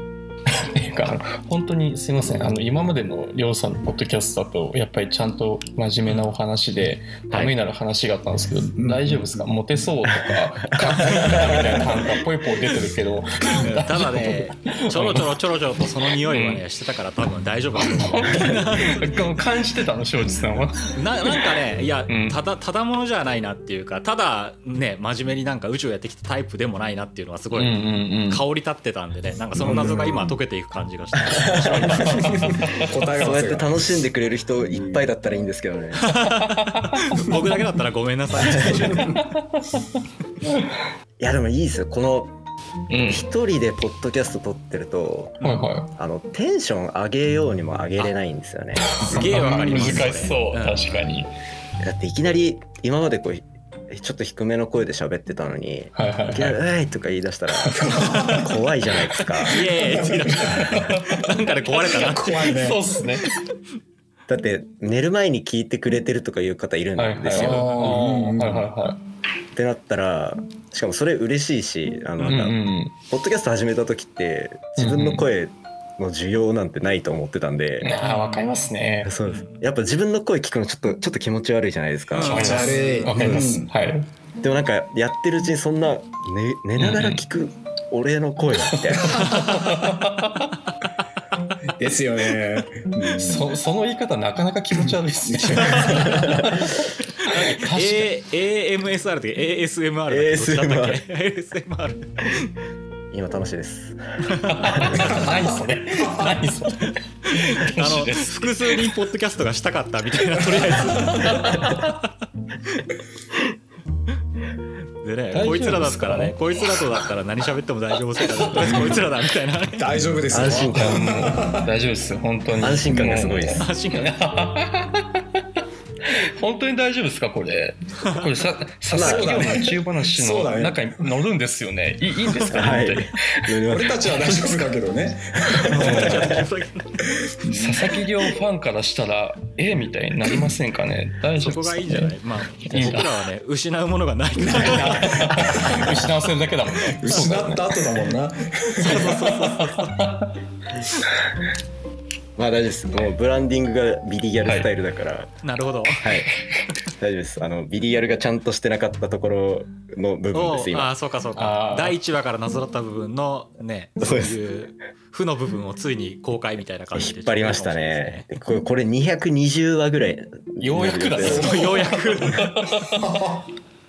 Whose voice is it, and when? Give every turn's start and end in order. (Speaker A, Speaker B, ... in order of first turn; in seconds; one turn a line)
Speaker A: 0.5-15.4
Speaker B: 6.1-6.3
Speaker C: 8.8-9.5
Speaker D: 10.8-11.8
Speaker B: 11.1-11.6
Speaker B: 13.5-19.1
Speaker A: 16.1-16.6
Speaker A: 17.7-21.5
Speaker B: 20.9-32.6
Speaker A: 22.1-22.4
Speaker A: 27.5-28.4
Speaker C: 29.6-30.3
Speaker D: 29.6-30.1
Speaker D: 31.3-32.2
Speaker C: 32.0-34.0
Speaker A: 32.1-32.9
Speaker D: 33.2-36.2
Speaker C: 34.7-35.0
Speaker B: 36.0-39.2
Speaker A: 36.6-37.4
Speaker D: 38.4-39.0
Speaker D: 41.2-42.4
Speaker A: 42.9-43.2
Speaker D: 43.0-45.4
Speaker A: 45.4-45.9
Speaker D: 46.0-49.1
Speaker C: 49.0-50.1
Speaker B: 49.0-51.0
Speaker A: 49.2-51.3
Speaker D: 51.8-59.6
Speaker A: 55.9-56.6
Speaker C: 57.6-58.6
Speaker B: 59.5-62.5
Speaker C: 59.6-60.9
Speaker A: 60.3-61.3
Speaker C: 61.9-62.8
Speaker A: 62.5-63.2
Speaker D: 64.3-67.7
Speaker A: 67.0-69.0
Speaker C: 67.3-68.7
Speaker B: 67.6-67.9
Speaker D: 69.5-77.9
Speaker A: 72.2-72.9
Speaker A: 74.8-75.3
Speaker A: 77.8-79.1
Speaker B: 78.0-78.7
Speaker D: 79.0-82.6
Speaker B: 79.3-79.6
Speaker B: 82.1-83.2
Speaker C: 82.2-83.7
Speaker A: 82.2-84.1
Speaker D: 83.1-83.5
Speaker D: 84.4-89.4
Speaker A: 86.8-87.2
Speaker A: 88.6-90.5
Speaker B: 89.2-89.6
Speaker C: 91.8-93.5
Speaker A: 93.1-98.1
Speaker C: 95.2-96.3
Speaker B: 95.6-96.0
Speaker D: 96.2-96.5
Speaker B: 97.2-102.1
Speaker D: 100.1-101.0
Speaker D: 103.1-104.0
Speaker B: 104.3-105.3
Speaker A: 104.5-108.8
Speaker D: 104.7-105.0
Speaker C: 105.0-105.3
Speaker C: 106.0-106.3
Speaker B: 107.2-111.9
Speaker A: 110.4-111.9
Speaker B: 115.0-119.9
Speaker A: 115.3-116.8
Speaker A: 118.5-118.9
Speaker C: 118.5-119.1
Speaker C: 119.7-121.7
Speaker D: 120.3-121.1
Speaker A: 120.5-134.6
Speaker D: 122.6-123.7
Speaker B: 123.5-124.2
Speaker B: 128.0-128.3
Speaker D: 128.9-129.6
Speaker C: 128.9-131.1
Speaker D: 132.5-134.0
Speaker C: 133.7-136.4
Speaker B: 135.7-137.0
Speaker A: 135.7-136.4
Speaker C: 137.3-138.0
Speaker A: 137.5-143.1
Speaker B: 141.4-145.2
Speaker C: 144.4-146.0
Speaker A: 144.6-147.8
Speaker C: 146.9-149.2
Speaker B: 148.8-150.0
Speaker A: 148.8-150.3
Speaker D: 152.4-155.3
Speaker A: 154.4-154.7
Speaker B: 155.4-156.1
Speaker D: 156.0-156.3
Speaker D: 157.0-160.9
Speaker B: 160.3-168.3
Speaker A: 161.3-162.0
Speaker D: 164.0-164.3
Speaker D: 166.9-171.5
Speaker A: 170.6-173.2
Speaker B: 171.2-172.5
Speaker C: 173.0-173.4